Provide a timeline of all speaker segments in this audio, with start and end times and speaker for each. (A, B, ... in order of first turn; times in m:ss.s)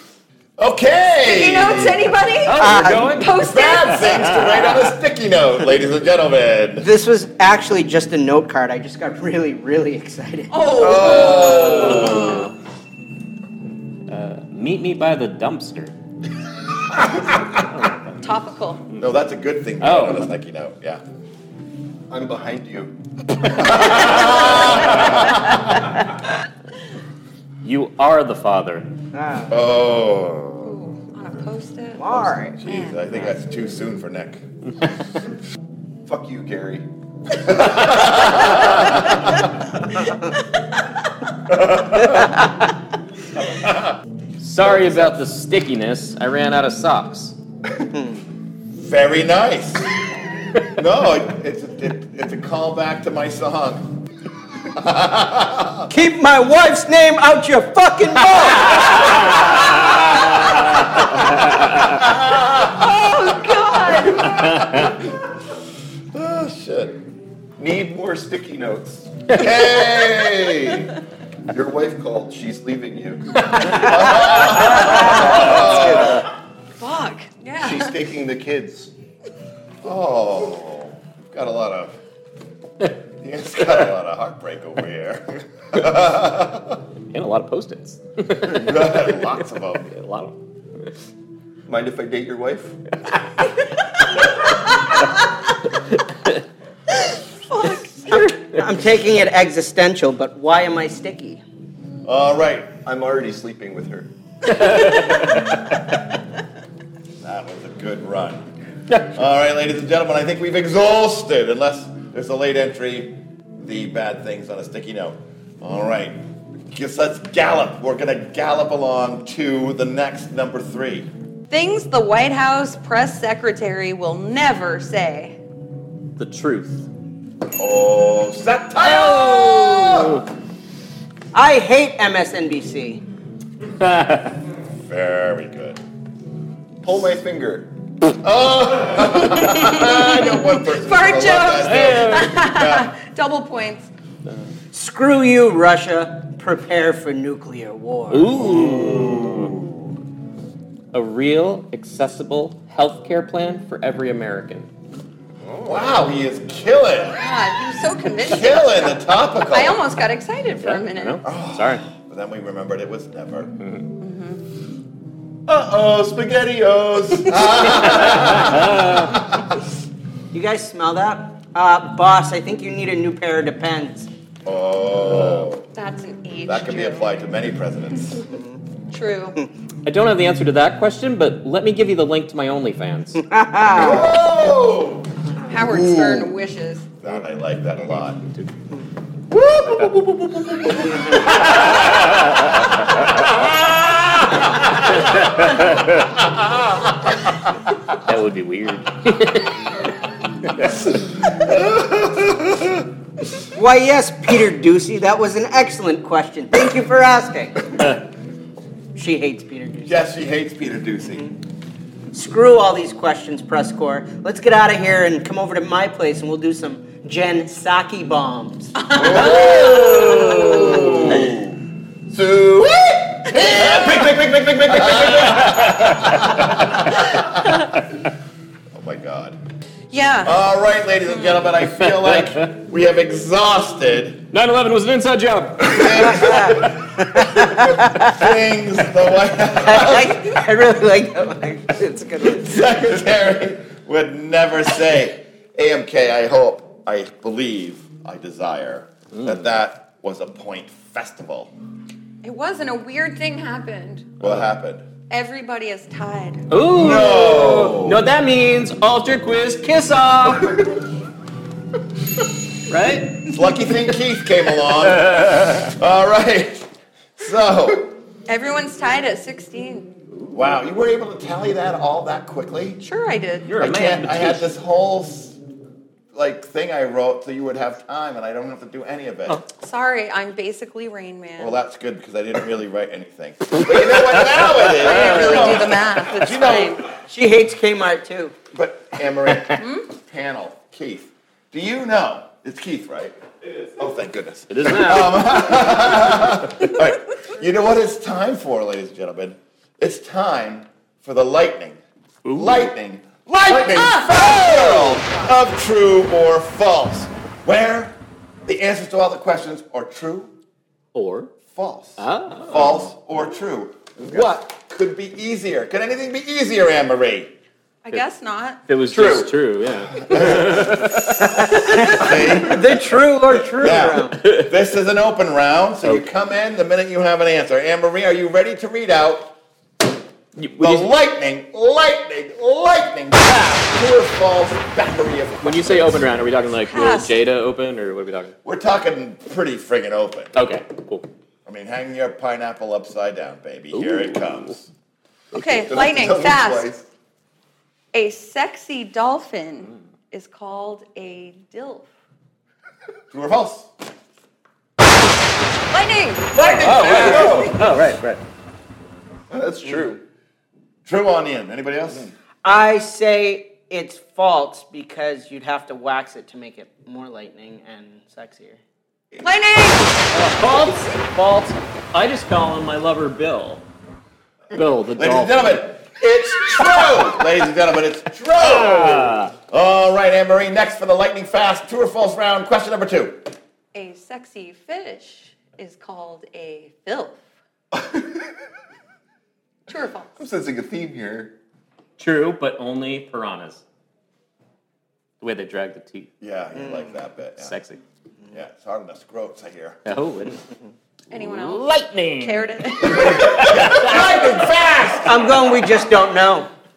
0:00.6-0:02.1 A
0:01.2-0:04.1 B
0:02.4-0:04.9 C
0:02.6-0:03.1 D
0:03.3-0:06.9 A
0:06.8-0:10.5 D
0:10.5-0:12.5 B
0:10.7-0:12.5 A
0:11.4-0:12.4 C
0:14.1-0:15.9 C
0:17.6-0:18.2 C
0:18.2-0:18.8 B
0:19.0-0:21.0 A
0:19.8-0:20.3 C
0:22.1-0:22.9 E
0:23.4-0:25.6 A
0:27.6-0:28.9 C
0:29.1-0:29.5 D
0:29.5-0:30.8 A
0:30.6-0:33.0 B
0:32.0-0:32.6 D
0:32.1-0:34.4 A
0:36.0-0:36.9 E
0:37.6-0:39.0 A
0:41.4-0:42.4 A
0:43.4-0:44.0 A
0:44.4-0:47.4 C
0:44.6-0:45.1 A
0:47.9-0:48.2 D
0:48.8-0:49.9 A
0:50.6-0:54.0 A
0:54.7-0:55.9 A
0:55.9-0:59.6 D
0:58.6-1:04.9 A
1:00.2-1:00.6 C
1:01.2-1:02.0 C
1:02.7-1:04.5 B
1:04.4-1:04.9 C
1:06.1-1:07.0 A
1:07.6-1:09.4 E
1:09.3-1:10.9 A
1:11.5-1:14.2 E
1:13.6-1:16.3 A
1:15.1-1:15.7 D
1:15.2-1:15.6 E
1:16.8-1:17.9 B
1:17.6-1:18.9 E
1:19.8-1:22.0 A
1:23.2-1:26.8 A
1:27.1-1:29.3 C
1:28.4-1:29.9 A
1:29.9-1:30.4 C
1:31.7-1:32.8 E
1:37.5-1:38.3 B
1:38.1-1:41.4 D
1:42.0-1:42.8 A
1:42.8-1:44.1 E
1:44.6-1:45.4 C
1:47.2-1:48.5 A
1:49.0-1:56.2 A
1:56.7-2:01.1 A
2:01.5-2:05.4 B
2:06.2-2:06.9 C
2:07.6-2:10.2 A
2:08.8-2:10.2 C
2:11.3-2:13.0 D
2:13.8-2:14.3 C
2:14.8-2:15.8 A
2:16.8-2:17.7 E
2:18.1-2:22.9 A
2:19.5-2:20.1 B
2:20.6-2:23.9 B
2:21.6-2:22.3 C
2:24.7-2:28.6 D
2:28.1-2:29.6 C
2:28.4-2:29.9 A
2:30.9-2:34.7 C
2:35.4-2:36.0 E
2:35.6-2:37.2 A
2:37.1-2:41.2 B
2:38.2-2:39.8 A
2:40.6-2:41.8 C
2:41.2-2:43.5 A
2:43.6-2:43.9 C
2:44.0-2:44.4 B
2:45.5-2:47.9 E
2:47.2-2:49.6 A
2:47.8-2:49.1 C
2:50.3-2:54.1 D
2:54.4-2:55.6 A
2:55.7-2:57.1 B
2:56.5-2:58.2 A
2:58.9-2:59.4 B
2:59.8-3:03.2 C
3:03.2-3:04.2 D
3:03.7-3:05.1 A
3:05.5-3:06.8 B
3:05.7-3:06.2 A
3:07.0-3:08.2 A
3:09.4-3:10.7 E
3:09.6-3:09.9 C
3:10.8-3:11.3 D
3:11.1-3:15.3 A
3:11.8-3:12.7 C
3:15.0-3:16.2 C
3:17.9-3:19.9 C
3:21.4-3:22.7 A
3:23.5-3:28.0 D
3:28.9-3:30.0 D
3:29.8-3:31.3 A
3:32.1-3:38.9 D
3:38.8-3:41.0 B
3:38.9-3:41.4 E
3:39.3-3:41.1 C
3:40.7-3:41.6 A
3:42.1-3:46.0 E
3:43.4-3:43.7 B
3:44.6-3:46.8 C
3:46.4-3:47.2 A
3:47.5-3:47.8 C
3:48.7-3:49.4 A
3:49.9-3:50.3 B
3:50.2-3:54.2 A
3:51.8-3:52.5 C
3:54.3-3:56.5 C
3:55.6-4:00.4 A
3:56.2-3:57.9 D
3:59.6-4:02.6 D
4:02.3-4:11.5 A
4:12.2-4:14.2 B
4:14.2-4:14.8 A
4:15.1-4:16.5 B
4:16.5-4:20.6 C
4:16.7-4:18.0 A
4:22.7-4:23.3 C
4:23.2-4:27.9 A
4:24.8-4:25.7 C
4:28.3-4:29.9 B
4:30.1-4:30.4 C
4:30.3-4:32.8 A
4:32.8-4:33.5 B
4:33.5-4:34.5 C
4:33.6-4:35.4 A
4:36.1-4:39.4 A
4:39.6-4:41.6 B
4:41.4-4:46.9 A
4:44.8-4:45.5 C
4:44.8-4:46.8 B
4:47.1-4:48.3 D
4:48.5-5:01.8 A
4:49.6-4:49.9 B
4:54.5-4:55.7 C
5:02.2-5:02.7 C
5:02.3-5:10.3 A
5:03.5-5:05.3 B
5:10.9-5:11.3 C
5:11.5-5:17.3 A
5:12.0-5:12.8 C
5:17.8-5:18.6 B
5:18.7-5:22.3 C
5:18.9-5:19.4 E
5:20.0-5:20.7 E
5:20.1-5:22.9 A
5:21.4-5:24.2 D
5:23.5-5:29.3 A
5:24.2-5:24.5 C
5:30.4-5:30.9 C
5:30.6-5:36.1 A
5:35.4-5:38.3 C
5:36.7-5:37.2 B
5:38.4-5:40.3 A
5:40.3-5:41.0 C
5:41.4-5:44.7 A
5:43.7-5:44.5 C
5:45.3-5:46.7 B
5:45.6-5:46.8 E
5:47.9-5:51.9 B
5:53.1-5:53.7 A
5:55.7-5:56.3 B
5:56.3-5:57.7 A
5:56.4-5:58.2 C
5:56.9-5:57.6 E
5:59.3-6:00.0 E
6:00.8-6:02.0 A
6:02.4-6:08.6 D
6:09.2-6:10.9 B
6:10.1-6:13.6 C
6:14.5-6:15.7 C
6:15.0-6:23.3 A
6:16.5-6:17.0 C
6:18.4-6:19.3 C
6:23.7-6:27.2 B
6:27.7-6:28.3 E
6:29.7-6:30.1 B
6:30.2-6:31.3 E
6:32.0-6:33.6 C
6:35.2-6:36.1 C
6:36.2-6:37.5 A
6:37.4-6:37.8 C
6:38.3-6:39.8 A
6:39.8-6:40.4 C
6:41.1-6:43.4 B
6:41.1-6:44.1 C
6:42.8-6:45.3 A
6:45.0-6:46.5 D